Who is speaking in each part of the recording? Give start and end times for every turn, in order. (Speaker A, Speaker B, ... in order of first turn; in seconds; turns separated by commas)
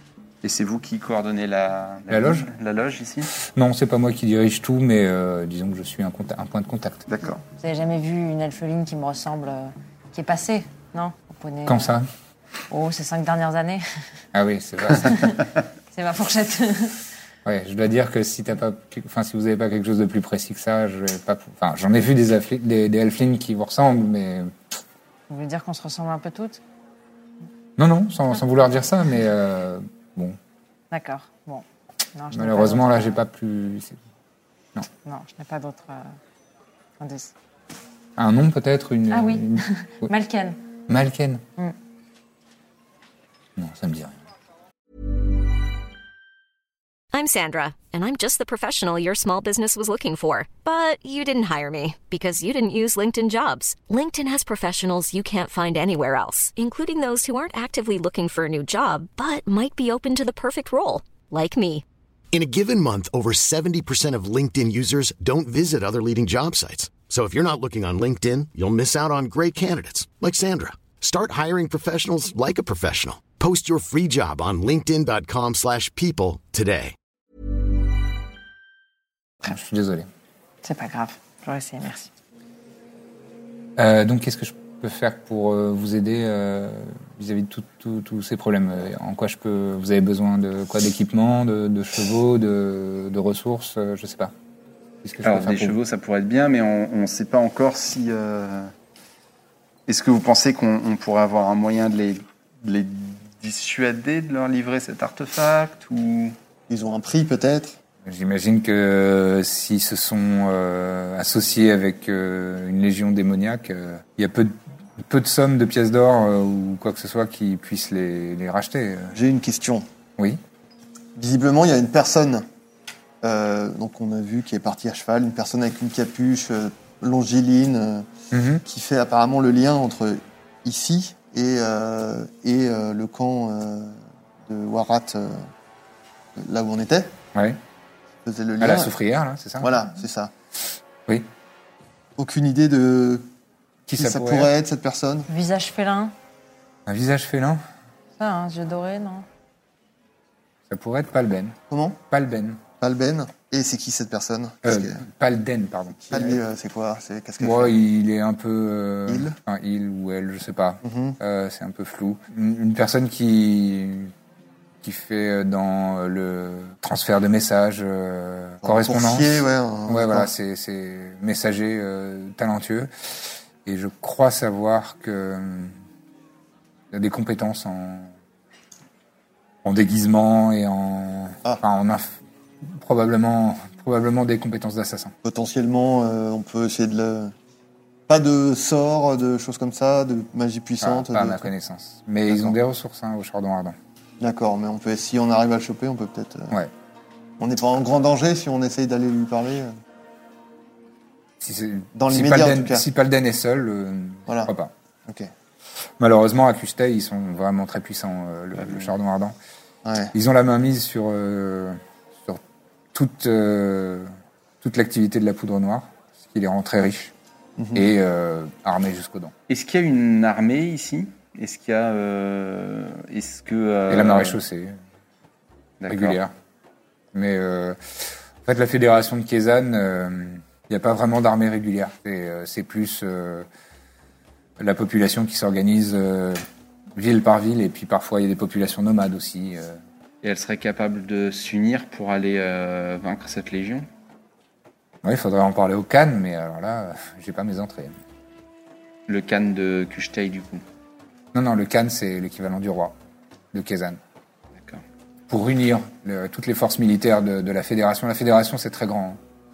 Speaker A: 0.4-3.3, Speaker B: 2.1-2.5, Speaker B: 3.4-7.1, Speaker A: 7.1-7.4, Speaker C: 7.6-11.9, Speaker B: 11.7-12.1, Speaker C: 12.7-13.8, Speaker B: 14.3-15.3, Speaker C: 15.9-17.0, Speaker B: 17.4-24.6, Speaker C: 25.3-26.6, Speaker B: 27.8-30.4, Speaker C: 30.9-33.2, Speaker B: 32.3-34.0, Speaker C: 35.0-36.1, Speaker C: 37.0-37.3, Speaker B: 38.2-40.1, Speaker C: 39.1-40.6, Speaker B: 40.9-41.4, Speaker B: 43.5-44.2, Speaker D: 47.1-61.8, Speaker E: 62.3-76.9, Speaker B: 79.4-80.1, Speaker C: 80.6-82.1, Speaker B: 83.8-94.3, Speaker B: 95.0-95.8, Speaker A: 95.2-98.7, Speaker A: 99.9-106.3, Speaker F: 106.7-107.8, Speaker B: 108.0-119.2, Speaker F: 119.1-119.9, Speaker F: 121.2-122.4, Speaker F: 123.2-128.1, Speaker B: 128.3-128.6, Speaker F: 128.6-135.4, Speaker F: 136.3-137.1, Speaker B: 137.3-137.6, Speaker F: 138.2-138.9, Speaker B: 138.6-139.8, Speaker F: 139.6-140.3, Speaker F: 142.2-143.2, Speaker B: 143.9-144.5, Speaker F: 143.9-145.3, Speaker C: 145.3-146.1, Speaker B: 146.8-147.6, Speaker C: 148.2-149.2, Speaker B: 150.7-151.6, Speaker F: 151.7-152.0, Speaker B: 152.1-152.6, Speaker F: 152.8-155.0, Speaker B: 154.6-156.4, Speaker F: 156.1-157.8, Speaker B: 157.4-164.1, Speaker F: 159.1-159.3, Speaker F: 160.8-161.2, Speaker B: 164.8-175.7, Speaker F: 168.6-170.3, Speaker B: 176.9-178.1, Speaker B: 179.6-185.1, Speaker F: 185.2-187.3, Speaker F: 188.1-191.4, Speaker B: 190.8-193.8, Speaker F: 194.2-196.6, Speaker F: 197.4-199.7, Speaker B: 201.4-204.7, Speaker F: 201.9-202.8, Speaker F: 204.3-204.5, Speaker B: 206.0-209.3, Speaker F: 209.8-210.1, Speaker B: 210.1-212.4, Speaker B: 212.9-217.1, Speaker F: 217.6-217.9, Speaker B: 217.7-219.3, Speaker A: 219.5-224.4, Speaker B: 223.9-224.8, Speaker A: 225.8-226.2, Speaker B: 225.9-226.3, Speaker B: 227.1-233.5, Speaker B: 234.6-236.4, Speaker B: 236.9-239.8, Speaker A: 240.2-243.8, Speaker B: 245.0-247.9, Speaker A: 249.1-250.6, Speaker B: 251.3-252.9, Speaker B: 253.5-254.0, Speaker B: 255.3-259.2